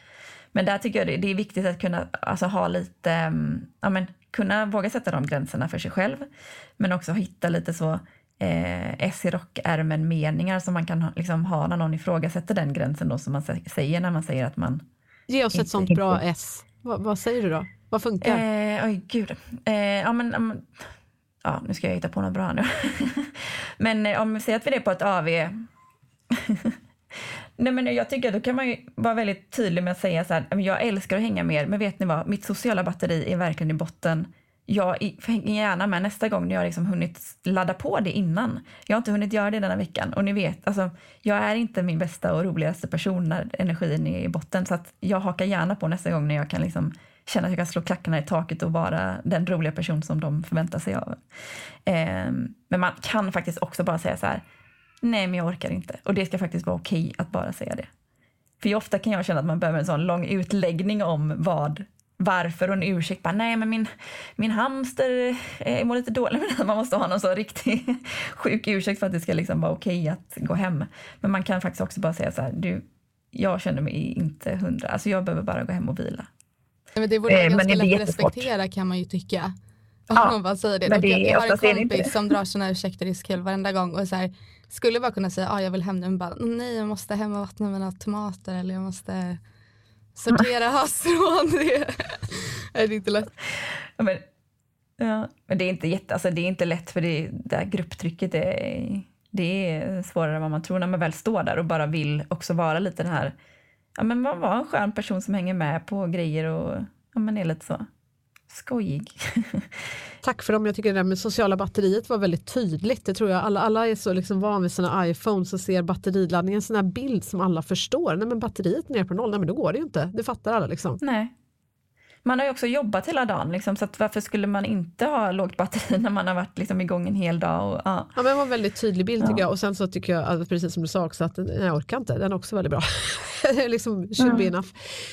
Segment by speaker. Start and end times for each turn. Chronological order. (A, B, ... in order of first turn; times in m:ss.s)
0:00.5-0:06.2 A
0:06.8-0:14.8 A
0:15.3-0:18.4 B
0:15.5-0:16.2 A
0:18.2-0:20.8 A
0:21.4-0:25.6 A
0:26.3-0:26.8 A
0:27.6-0:51.2 A
0:51.8-0:54.4 A
0:55.0-0:57.9 A
0:58.6-1:16.3 A
1:17.0-1:19.5 C
1:17.3-1:18.5 A
1:20.1-1:29.4 C
1:20.9-1:22.1 A
1:30.2-1:33.3 C
1:33.6-1:34.2 A
1:35.0-1:43.3 A
1:44.0-1:47.8 A
1:48.5-1:49.7 A
1:50.2-2:01.0 B
2:01.0-2:01.3 A
2:02.2-2:08.1 A
2:08.1-2:14.9 B
2:14.2-2:14.5 A